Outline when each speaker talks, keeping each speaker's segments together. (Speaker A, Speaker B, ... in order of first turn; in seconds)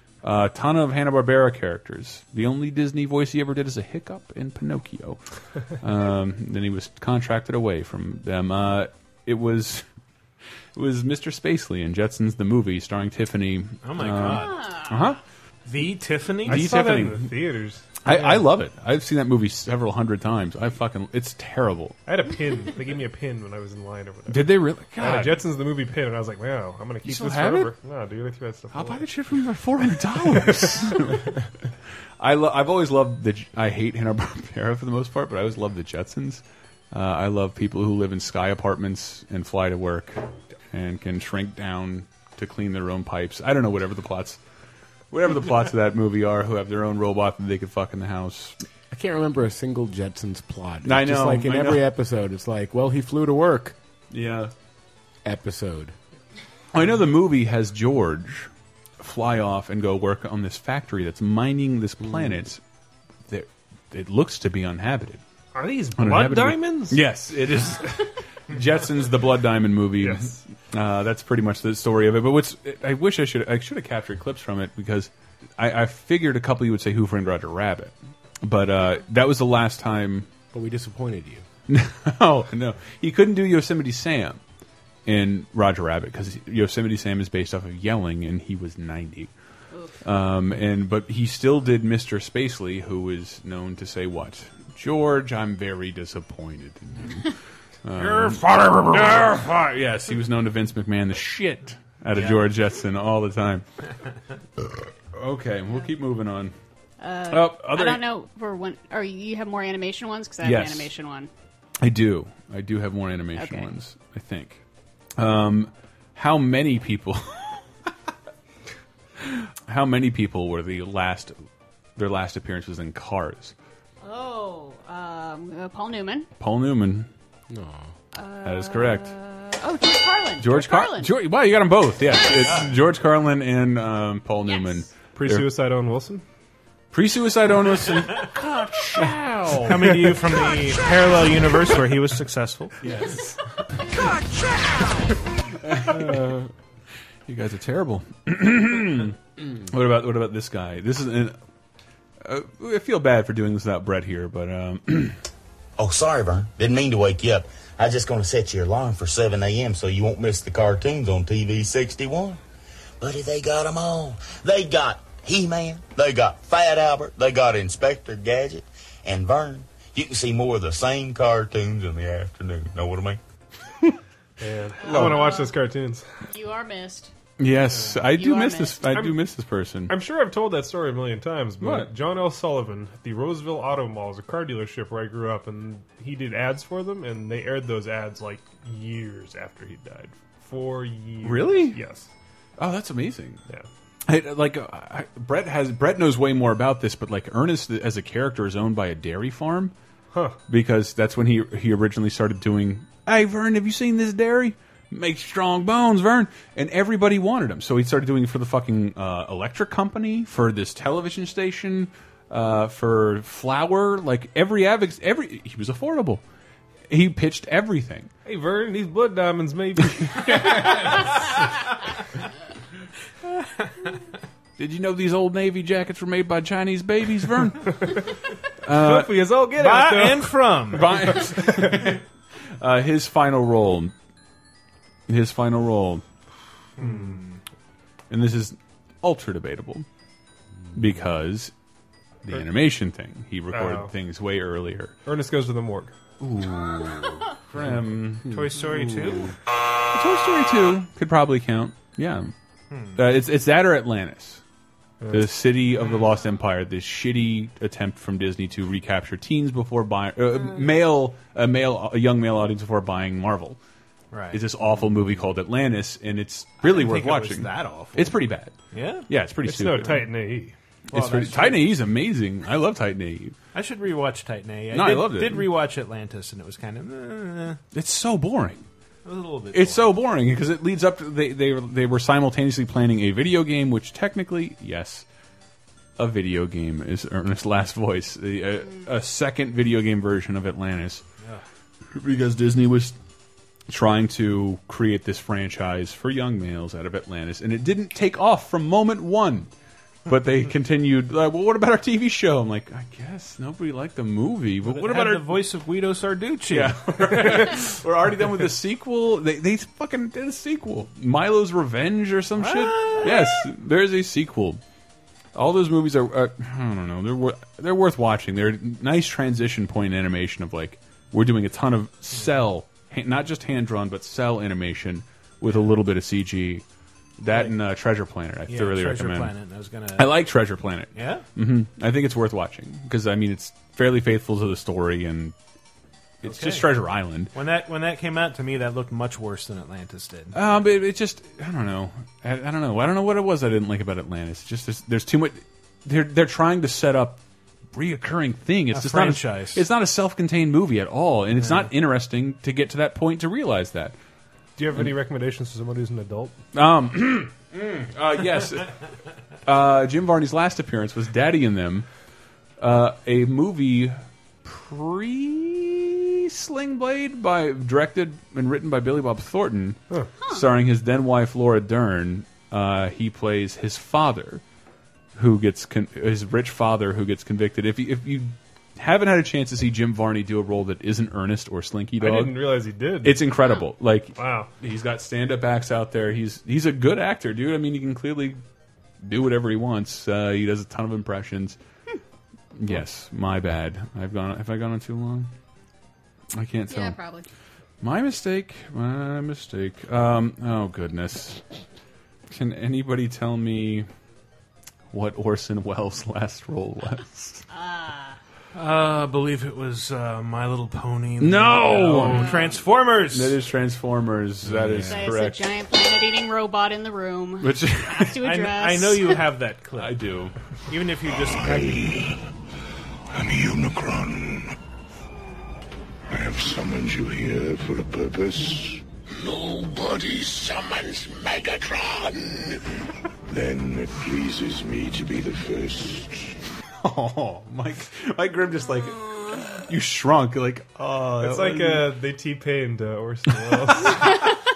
Speaker A: 0.2-5.2, 5.8-9.8, 10.8-15.2, 16.4-17.5, 18.0-22.0, 24.3-25.4, 27.0-27.7, 28.7-31.3, 32.2-44.4, 45.1-48.6, 50.8-51.9, 54.1-54.5, 56.7-62.6, 63.3-65.2, 66.0-80.3, 81.7-84.4, 85.1-89.3, 90.0-97.3, 97.8-103.6, 105.1-106.5, 107.3-108.0, 110.4-110.9, 111.8-114.6, 115.2-117.6, 119.2-121.3, 122.0-123.5, 126.4-127.1, 128.4-129.1, 130.4-135.5, 136.9-140.2, 142.8-143.4, 145.6-146.4, 147.3-151.4, 152.2-155.2, 174.9-175.2, 177.4-179.9, 181.6-181.9, 191.2-191.8, 192.6-193.4, 194.1-199.7, 200.5-216.2, 216.9-218.1, 220.2-220.8, 224.6-228.0, 228.6-229.2, 230.7-232.0, 232.6-233.9, 235.1-236.0, 238.1-239.9, 240.8-241.5, 242.2-245.0, 246.2-249.2, 249.9-252.3, 253.0-254.4, 255.1-263.6, 264.3-268.6, 269.1-270.1, 270.9-273.4, 274.7-275.5, 277.7-278.6, 279.5-285.1, 286.0-291.0, 291.9-292.9, 293.7-299.5, 300.1-305.4, 306.5-314.6, 315.4-326.6, 327.2-329.3, 330.0-335.4, 336.2-337.3, 340.3-347.2, 347.7-354.0, 356.5-358.7, 359.5-361.9, 362.6-374.4, 375.1-382.5, 383.0-388.4, 389.0-391.6, 392.6-395.3, 396.3-397.0, 397.8-401.4, 402.3-403.9, 404.9-407.4, 411.2-412.4, 413.1-415.5, 417.4-418.2, 419.8-420.4, 436.8-441.9, 443.5-444.3
Speaker B: 13.8-14.6, 15.7-16.7, 98.0-99.3, 102.1-102.4, 139.6-142.8, 229.6-231.2, 236.8-237.4, 248.3-249.3, 252.7-253.0, 264.1-264.4, 266.6-268.2, 268.7-269.1, 269.8-270.1, 270.9-271.8, 273.5-277.6, 279.0-279.9, 304.6-307.6, 312.4-313.4, 325.5-325.7, 327.3-327.5, 328.5-330.2, 330.9-331.2, 336.2-336.7, 337.3-340.4, 348.7-349.6, 351.4-351.7, 408.5-413.4, 418.2-419.9, 420.7-422.0
Speaker C: 14.3-15.0, 89.7-90.0, 107.0-111.3, 113.4-113.7, 124.0-126.3, 128.1-131.2, 132.1-132.7, 134.5-134.9, 138.4-139.1, 174.8-175.5, 176.3-177.1, 178.1-178.8, 396.7-397.3, 407.5-408.2, 412.1-412.5, 414.8-419.2
Speaker D: 16.4-18.5, 22.1-29.0, 30.3-31.1, 65.5-67.0, 70.0-70.4, 135.2-136.2, 174.4-176.0, 178.9-179.2, 179.9-192.1, 200.1-200.4, 218.2-221.1, 228.7-231.9, 236.8-237.2, 243.5-243.9, 245.1-245.9, 255.0-255.4, 269.4-270.5, 354.6-356.4, 382.0-383.2, 384.1-384.5, 441.2-444.1
Speaker E: 48.9-53.8, 55.2-55.9, 62.0-62.4, 80.5-81.4, 127.5-127.9, 414.5-414.9
Speaker F: 155.8-162.4, 163.0-173.2
Speaker G: 421.1-422.2, 423.1-424.5, 426.1-432.6, 433.3-436.4